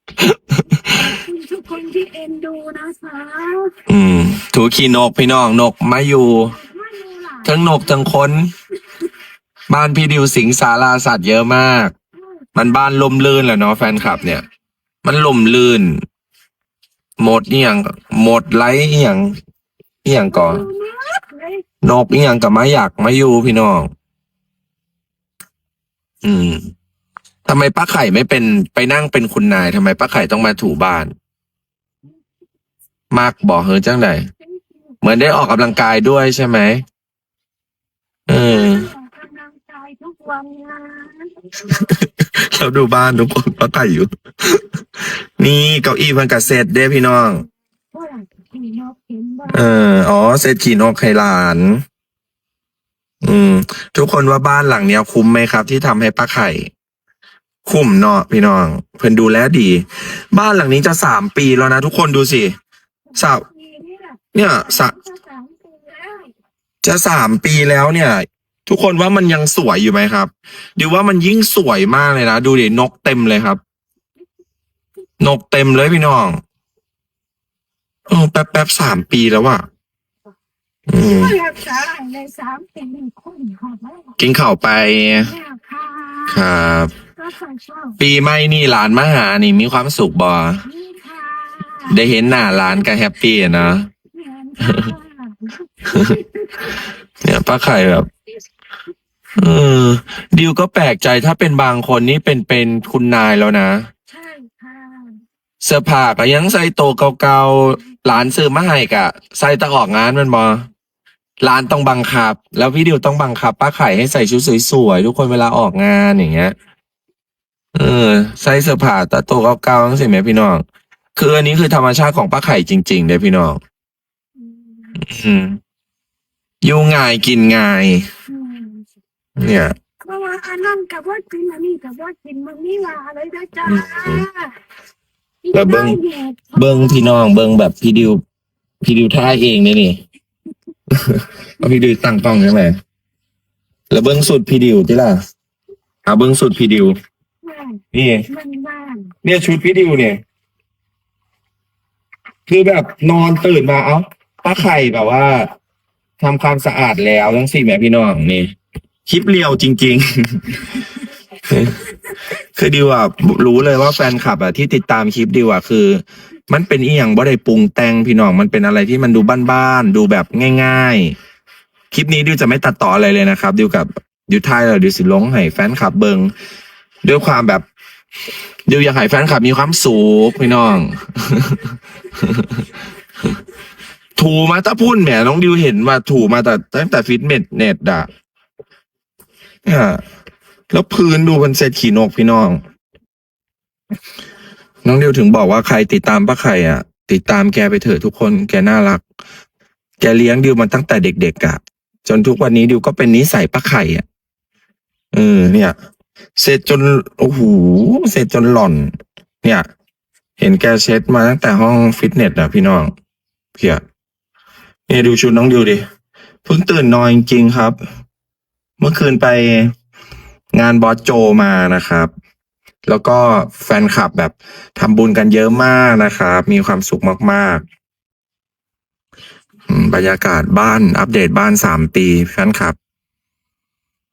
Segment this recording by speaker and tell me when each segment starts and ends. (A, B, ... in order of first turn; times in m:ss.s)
0:00.2-0:01.0 A
0:00.9-0:03.7 B
0:03.9-0:06.6 A
0:06.4-0:07.9 B
0:07.4-0:08.5 A
0:09.7-0:11.9 A
0:12.2-0:12.8 B
0:12.6-0:14.4 A
0:13.9-0:14.5 B
0:15.0-0:16.0 A
0:17.2-0:19.4 A
0:20.0-0:20.7 A
0:20.3-0:21.6 B
0:21.8-0:23.9 A
0:26.2-0:26.7 A
0:27.5-0:31.1 A
0:33.1-0:34.3 A
0:34.5-0:34.9 B
0:35.0-0:36.8 A
0:38.3-0:38.9 A
0:38.5-0:41.5 B
0:41.7-0:44.6 A
0:45.4-0:47.4 A
0:47.9-0:49.7 B
0:49.5-0:51.8 A
0:53.2-0:56.7 A
0:57.6-1:02.6 A
1:03.1-1:06.3 B
1:03.2-1:03.4 A
1:04.3-1:05.0 A
1:06.8-1:13.6 A
1:15.2-1:16.4 A
1:18.1-1:19.6 A
1:20.9-1:21.4 A
1:21.0-1:24.2 B
1:24.2-1:25.3 A
1:25.2-1:26.5 B
1:26.3-1:26.9 A
1:27.2-1:28.0 B
1:28.0-1:30.6 A
1:30.6-1:32.0 B
1:31.9-1:33.9 A
1:34.1-1:36.8 B
1:34.6-1:34.9 A
1:35.9-1:36.2 A
1:37.2-1:38.1 A
1:39.4-1:43.9 A
1:44.1-1:45.2 B
1:45.6-1:50.7 A
1:51.4-1:56.6 A
1:57.8-2:00.6 A
2:01.2-2:03.6 A
2:04.4-2:05.0 B
2:05.0-2:05.6 A
2:06.6-2:08.1 A
2:08.3-2:08.8 B
2:09.4-2:09.8 A
2:10.0-2:14.6 B
2:13.7-2:14.3 A
2:15.4-2:17.2 B
2:15.5-2:16.0 A
2:16.6-2:18.2 A
2:18.8-2:20.0 A
2:20.9-2:22.8 A
2:23.9-2:25.2 A
2:26.1-2:27.0 A
2:27.4-2:29.1 B
2:27.9-2:28.3 A
2:29.2-2:30.2 A
2:32.5-2:35.5 A
2:36.2-2:38.5 A
2:39.1-2:40.7 A
2:41.5-2:41.8 A
2:42.4-2:51.2 A
2:51.9-2:56.3 A
2:57.0-2:57.6 A
2:58.7-3:02.6 A
3:04.2-3:08.1 A
3:09.6-3:10.0 A
3:10.7-3:12.6 A
3:14.8-3:19.0 A
3:20.0-3:24.0 A
3:25.1-3:25.8 A
3:26.4-3:29.7 A
3:30.4-3:32.9 A
3:33.6-3:33.8 A
3:34.9-3:35.8 A
3:36.5-3:37.8 A
3:38.8-3:39.7 A
3:40.5-3:42.1 A
3:42.9-3:47.6 A
3:49.7-3:52.8 A